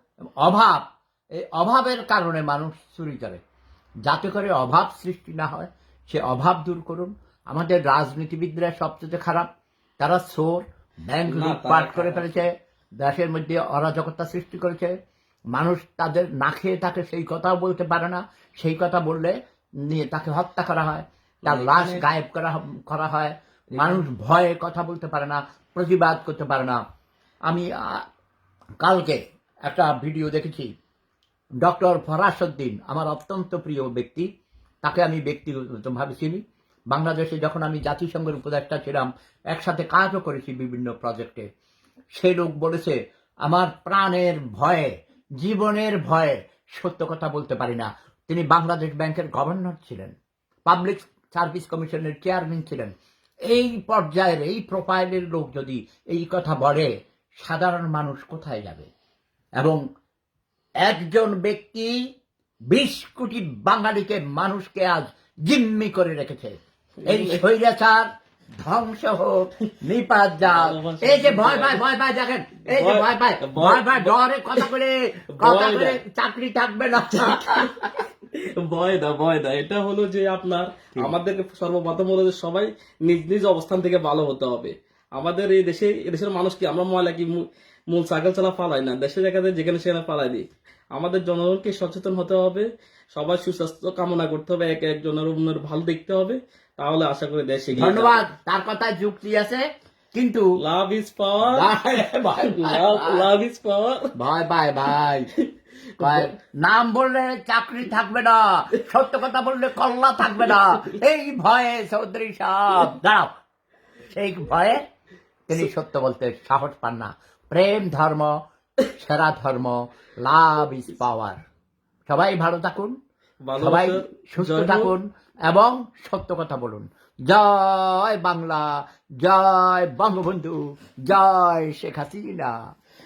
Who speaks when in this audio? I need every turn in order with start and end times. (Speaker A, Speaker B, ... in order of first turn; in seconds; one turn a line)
Speaker A: 0.4-0.8
Speaker A: 1.4-3.4
Speaker A: 4.1-9.5
Speaker A: 10.0-14.9
Speaker B: 11.2-12.4
Speaker A: 15.5-26.8
Speaker B: 21.4-22.0
Speaker B: 23.7-24.1
Speaker A: 27.5-28.0
Speaker A: 28.8-30.7
Speaker A: 31.6-34.3
Speaker A: 34.8-41.5
Speaker A: 42.1-50.1
Speaker A: 50.6-52.9
Speaker A: 53.5-58.9
Speaker A: 60.8-62.0
Speaker A: 62.7-68.1
Speaker B: 67.0-67.5
Speaker A: 68.6-77.9
Speaker B: 70.4-71.8
Speaker B: 72.7-74.7
Speaker B: 75.3-76.0
Speaker B: 77.1-98.3
Speaker A: 97.7-99.6
Speaker A: 100.1-100.5
Speaker B: 100.6-104.1
Speaker A: 101.4-103.3
Speaker A: 104.1-105.3
Speaker B: 105.3-106.3
Speaker A: 106.0-113.3
Speaker A: 114.1-114.8
Speaker A: 115.5-121.4
Speaker A: 122.1-123.0
Speaker B: 123.4-124.9
Speaker A: 123.5-132.5